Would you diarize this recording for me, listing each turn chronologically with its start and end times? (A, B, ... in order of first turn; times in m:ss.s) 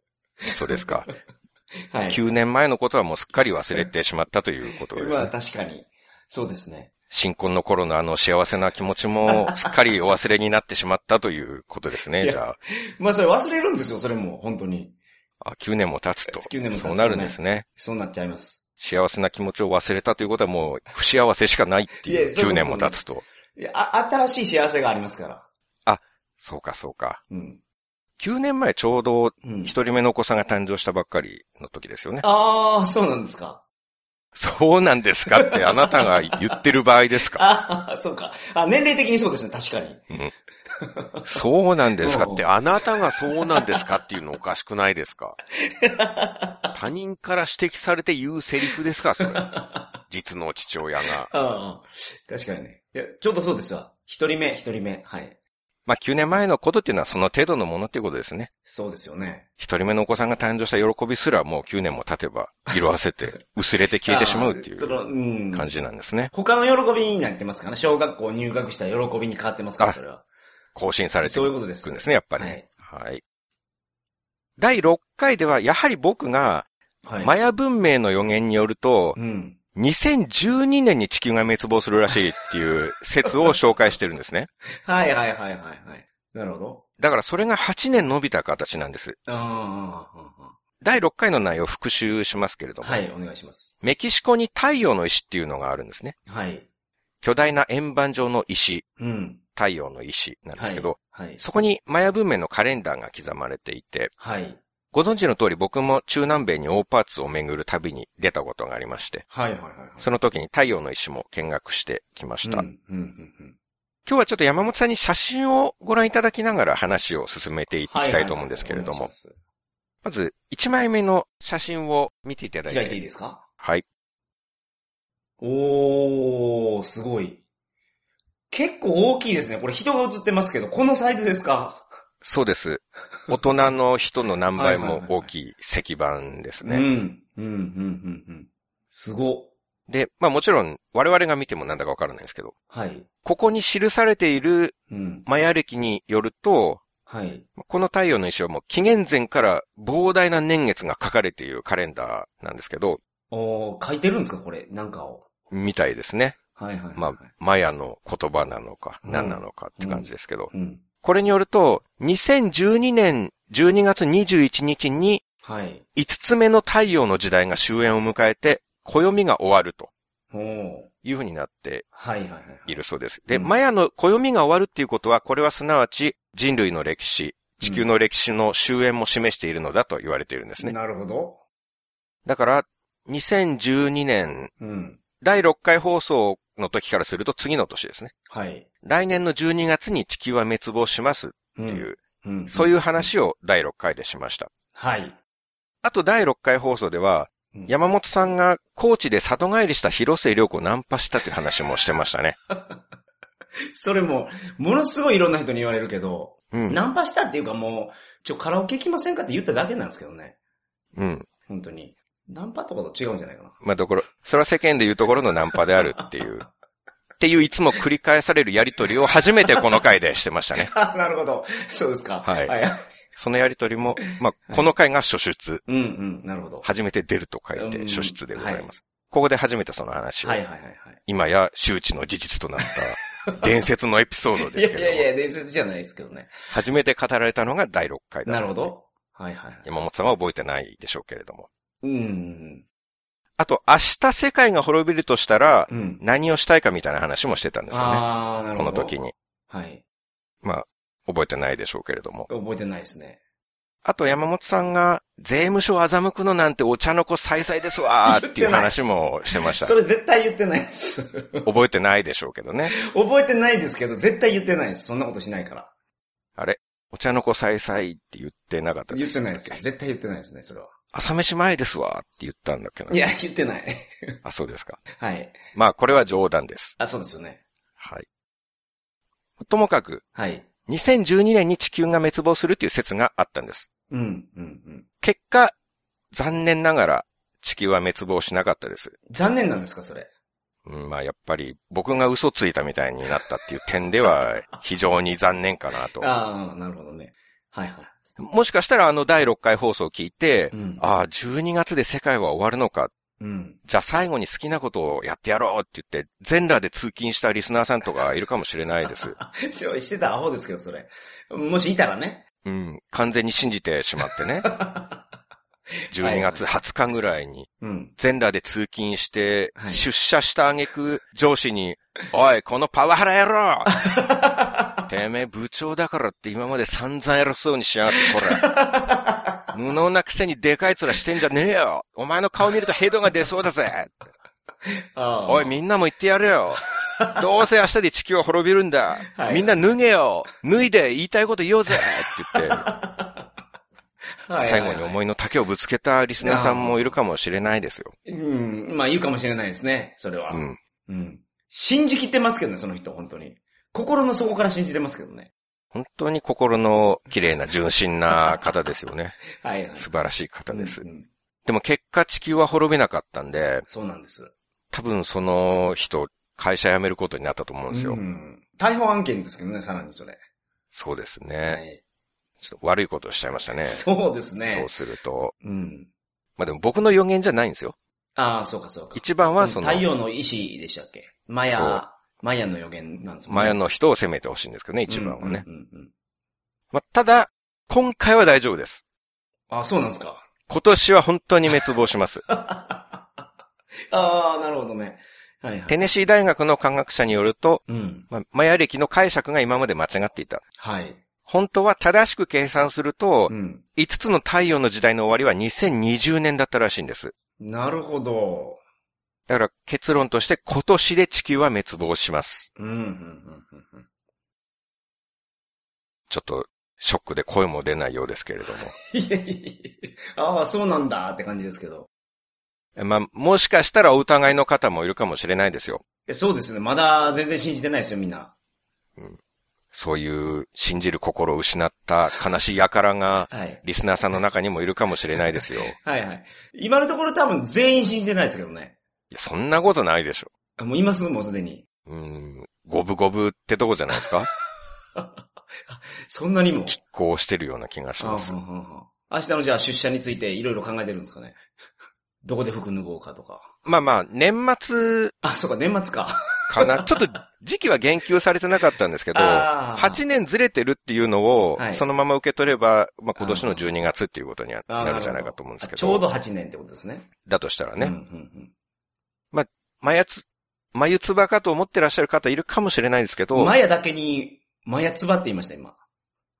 0:00.4-0:01.0 A
0:00.5-0:01.1 B
0:01.9-0:02.2 A
0:02.1-0:05.3 B
0:04.9-0:06.9 A
0:07.1-0:12.6 B
0:09.3-0:09.6 A
0:12.2-0:15.0 A
0:15.4-0:17.6 B
0:16.3-0:18.6 A
0:18.8-0:23.2 B
0:22.0-0:23.0 A
0:23.5-0:25.4 A
0:25.8-0:27.2 B
0:27.3-0:27.6 A
0:28.2-0:32.2 B
0:29.4-0:29.7 A
0:32.2-0:33.6 A
0:34.3-0:37.4 B
0:35.4-0:36.5 A
0:37.3-0:40.0 A
0:40.8-0:41.3 A
0:41.2-0:42.5 B
0:42.0-0:42.4 A
0:42.3-0:45.4 C
0:45.6-0:46.7 A
0:46.7-0:49.5 C
0:49.2-0:50.0 A
0:50.1-0:51.3 C
0:51.3-0:55.3 A
0:55.8-0:58.5 B
0:58.7-0:59.4 A
0:59.6-1:05.0 B
1:04.0-1:05.7 A
1:05.5-1:06.3 B
1:06.3-1:10.2 A
1:10.7-1:13.2 B
1:11.2-1:12.6 A
1:14.6-1:16.7 B
1:17.0-1:17.3 A
1:17.2-1:19.2 B
1:19.2-1:19.6 A
1:19.8-1:24.5 B
1:24.8-1:26.8 A
1:27.0-1:29.2 B
1:29.3-1:30.6 A
1:30.8-1:33.0 B
1:32.8-1:33.7 A
1:33.8-1:36.2 B
1:36.3-1:36.6 A
1:37.2-1:38.8 B
1:39.0-1:39.4 A
1:39.5-1:44.1 B
1:40.6-1:41.4 A
1:44.2-1:44.6 A
1:44.9-1:49.2 B
1:49.3-1:50.1 A
1:50.0-1:52.7 B
1:52.4-1:53.6 A
1:54.0-1:59.1 B
1:57.9-1:59.3 A
2:00.0-2:03.0 B
2:02.7-2:03.4 A
2:05.4-2:07.4 A
2:08.5-2:11.8 A
2:12.2-2:16.8 B
2:14.5-2:15.3 A
2:16.6-2:19.5 A
2:19.9-2:22.5 B
2:22.7-2:23.1 A
2:23.2-2:26.8 B
2:24.9-2:25.2 A
2:27.1-2:27.5 A
2:27.6-2:33.0 B
2:33.3-2:35.2 A
2:35.5-2:36.4 B
2:36.6-2:37.3 A
2:37.0-2:40.5 B
2:39.0-2:40.8 A
2:41.0-2:45.2 B
2:45.4-2:45.8 A
2:45.9-2:49.9 B
2:50.3-2:50.9 A
2:51.0-2:51.8 B
2:51.9-2:52.8 A
2:52.7-3:00.7 B
2:53.3-2:53.5 A
2:57.6-2:57.8 A
3:00.6-3:01.4 A
3:02.2-3:04.5 B
3:04.6-3:05.0 A
3:05.2-3:08.1 B
3:08.3-3:08.7 A
3:08.8-3:14.5 B
3:11.6-3:13.0 A
3:14.7-3:15.2 A
3:15.8-3:22.4 B
3:23.7-3:30.4 A
3:26.5-3:26.8 B
3:30.9-3:31.3 B
3:31.5-3:33.6 A
3:33.6-3:36.4 B
3:37.2-3:40.7 B
3:40.6-3:42.9 A
3:42.2-3:42.5 B
3:43.1-3:45.6 B
3:44.0-3:44.7 A
3:45.6-3:46.6 A
3:46.6-3:50.4 B
3:47.6-3:48.7 A
3:50.2-3:51.0 A
3:51.1-3:55.1 B
3:52.6-3:53.5 A
3:54.4-3:56.3 A
3:56.5-3:58.6 B
3:58.2-3:59.7 A
3:59.6-4:01.5 B
4:01.8-4:02.6 A
4:03.4-4:09.1 B
4:05.7-4:06.0 A
4:07.7-4:08.9 A
4:09.5-4:09.8 A
4:10.4-4:12.3 B
4:12.3-4:13.2 A
4:13.8-4:19.7 B
4:18.0-4:18.7 A
4:19.3-4:21.5 A
4:21.4-4:22.7 B
4:22.7-4:25.7 A
4:26.4-4:29.6 B
4:28.9-4:30.7 A
4:30.9-4:33.0 B
4:32.9-4:34.2 A
4:34.2-4:34.8 B
4:35.0-4:35.4 A
4:35.5-4:36.8 B
4:36.8-4:37.4 A
4:37.8-4:38.0 B
4:39.4-4:40.0 B
4:40.1-4:40.4 A
4:40.7-4:43.7 B
4:43.9-4:44.8 A
4:45.0-4:45.5 B
4:46.1-4:49.0 B
4:49.1-4:50.1 A
4:50.6-4:56.1 B
4:56.0-4:57.9 A
4:58.2-5:02.9 B
5:00.5-5:00.8 A
5:03.2-5:03.6 A
5:03.6-5:09.2 B
5:08.9-5:12.2 A
5:12.4-5:14.5 B
5:14.4-5:15.0 A
5:15.9-5:16.5 A
5:15.9-5:23.8 B
5:17.6-5:17.9 A
5:19.6-5:19.8 A
5:23.7-5:24.9 A
5:24.9-5:28.5 B
5:27.9-5:29.4 A
5:29.5-5:33.9 B
5:34.6-5:35.6 A
5:35.3-5:42.7 B
5:39.1-5:39.5 A
5:42.3-5:43.2 A
5:44.2-5:44.9 A
5:44.4-5:47.9 B
5:46.2-5:46.9 A
5:48.0-5:55.3 A
5:50.3-5:50.6 B
5:55.7-5:59.2 B
5:58.1-5:58.4 A
5:59.4-5:59.9 A
5:59.8-6:00.8 B
6:00.5-6:01.1 A
6:01.4-6:03.6 B
6:03.7-6:04.3 A
6:04.7-6:08.0 B
6:07.7-6:10.2 A
6:10.7-6:11.6 B
6:11.4-6:11.8 A
6:12.4-6:13.8 B
6:13.6-6:14.7 A
6:14.4-6:15.3 B
6:15.4-6:15.9 A
6:16.4-6:17.7 B
6:18.2-6:23.6 A
6:18.9-6:19.8 B
6:21.5-6:21.8 B
6:23.3-6:25.4 B
6:24.9-6:25.9 A
6:26.7-6:28.8 B
6:29.5-6:30.2 A
6:30.5-6:32.2 B
6:32.3-6:33.0 A
6:33.9-6:35.8 A
6:35.7-6:40.4 B
6:37.7-6:38.1 A
6:40.6-6:41.0 A
6:41.3-6:47.1 B
6:43.3-6:43.6 A
6:47.4-6:48.6 A
6:49.3-6:52.5 B
6:52.6-6:53.8 A
6:56.1-6:58.7 B
6:58.7-7:01.9 A
7:02.8-7:05.8 B
7:06.0-7:08.3 A
7:09.7-7:15.8 B
7:13.3-7:13.6 A
7:15.3-7:18.8 A
7:19.1-7:20.3 B
7:20.6-7:21.6 A
7:21.9-7:24.3 B
7:25.7-7:26.8 A
7:26.7-7:28.4 B
7:28.0-7:31.4 A
7:32.2-7:33.5 A
7:33.6-7:35.1 B
7:35.2-7:37.0 A
7:36.5-7:46.0 B
7:39.1-7:40.0 A
7:41.6-7:41.8 A
7:43.2-7:43.6 A
7:44.7-7:47.1 A
7:47.2-7:47.9 B
7:47.8-7:48.5 A
7:49.3-7:53.5 B
7:53.3-7:55.8 A